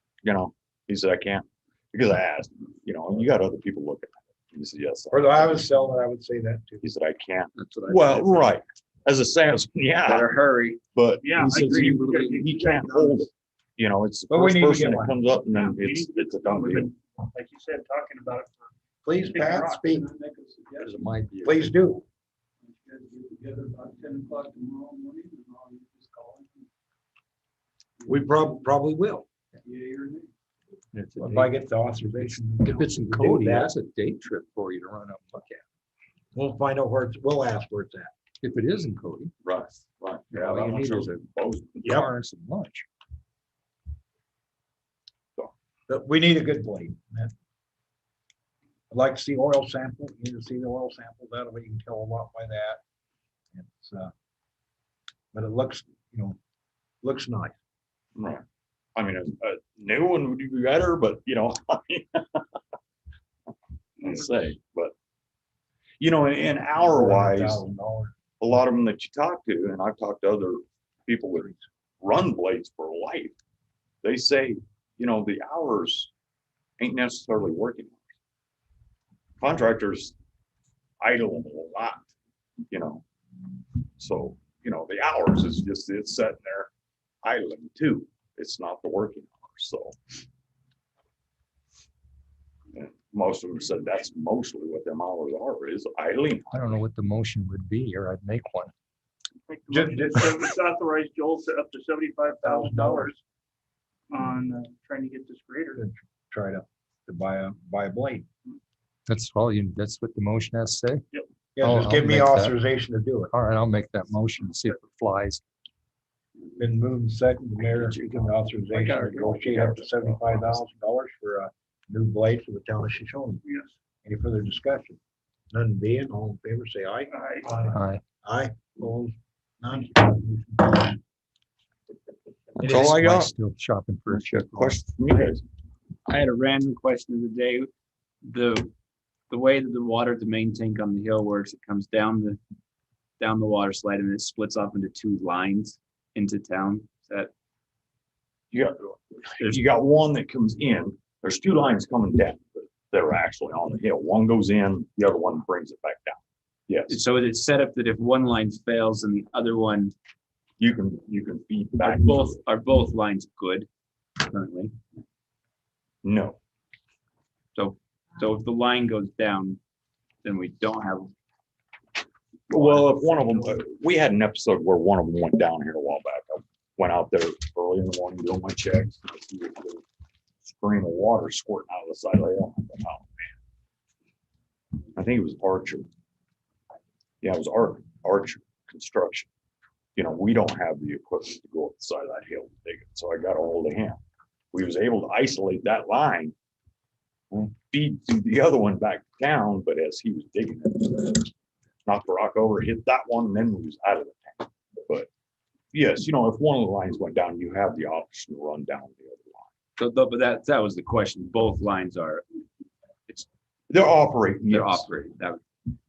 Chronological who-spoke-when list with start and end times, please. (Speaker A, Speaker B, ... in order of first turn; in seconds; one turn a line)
Speaker A: 0.2-5.7
Speaker B: 5.1-6.8
Speaker A: 6.8-10.3
Speaker C: 7.5-8.5
Speaker C: 10.0-10.8
Speaker A: 10.9-16.9
Speaker D: 11.2-12.8
Speaker B: 12.7-13.3
Speaker B: 14.3-15.2
Speaker D: 15.5-18.7
Speaker B: 19.0-20.1
Speaker D: 19.3-20.7
Speaker E: 20.8-21.7
Speaker B: 21.4-22.0
Speaker D: 22.9-26.6
Speaker B: 28.1-29.2
Speaker D: 29.7-30.2
Speaker E: 30.9-31.5
Speaker B: 31.2-33.7
Speaker E: 32.1-35.6
Speaker B: 36.3-38.1
Speaker E: 38.4-39.3
Speaker A: 39.4-41.8
Speaker E: 40.3-41.3
Speaker E: 41.8-42.9
Speaker B: 41.8-42.1
Speaker B: 45.9-47.3
Speaker B: 48.9-52.8
Speaker B: 53.5-54.1
Speaker B: 55.3-56.4
Speaker B: 57.0-57.5
Speaker A: 58.1-58.4
Speaker A: 59.0-62.5
Speaker A: 64.0-64.9
Speaker A: 66.0-67.6
Speaker B: 66.8-68.1
Speaker A: 68.4-73.3
Speaker A: 74.0-76.1
Speaker A: 76.8-78.0
Speaker A: 79.4-80.1
Speaker A: 81.0-82.1
Speaker A: 82.7-83.0
Speaker A: 84.0-86.7
Speaker A: 87.2-90.0
Speaker A: 92.7-96.8
Speaker E: 96.5-98.7
Speaker D: 99.5-103.2
Speaker B: 99.7-100.3
Speaker B: 102.4-103.1
Speaker D: 104.1-105.8
Speaker B: 105.8-108.2
Speaker E: 109.1-111.0
Speaker B: 111.5-113.3
Speaker E: 111.6-112.6
Speaker E: 113.3-115.4
Speaker B: 116.6-123.4
Speaker A: 117.7-120.5
Speaker B: 124.0-125.0
Speaker B: 125.5-131.0
Speaker D: 127.1-127.5
Speaker E: 127.7-128.0
Speaker A: 132.6-133.3
Speaker E: 132.6-134.8
Speaker A: 134.1-135.4
Speaker C: 136.1-137.7
Speaker C: 138.2-138.7
Speaker C: 139.3-142.4
Speaker C: 143.2-147.3
Speaker A: 148.5-157.0
Speaker C: 156.9-159.9
Speaker A: 160.6-162.4
Speaker C: 161.8-163.7
Speaker C: 164.2-164.8
Speaker A: 166.0-166.4
Speaker C: 167.5-169.6
Speaker C: 170.2-171.1
Speaker A: 172.5-179.8
Speaker C: 172.5-173.4
Speaker A: 180.4-183.3
Speaker A: 184.9-185.9
Speaker A: 187.2-189.3
Speaker A: 189.9-194.0
Speaker A: 194.5-196.3
Speaker A: 197.3-201.3
Speaker A: 201.8-205.1
Speaker A: 205.7-209.5
Speaker C: 209.8-212.2
Speaker A: 213.7-214.9
Speaker C: 214.5-215.4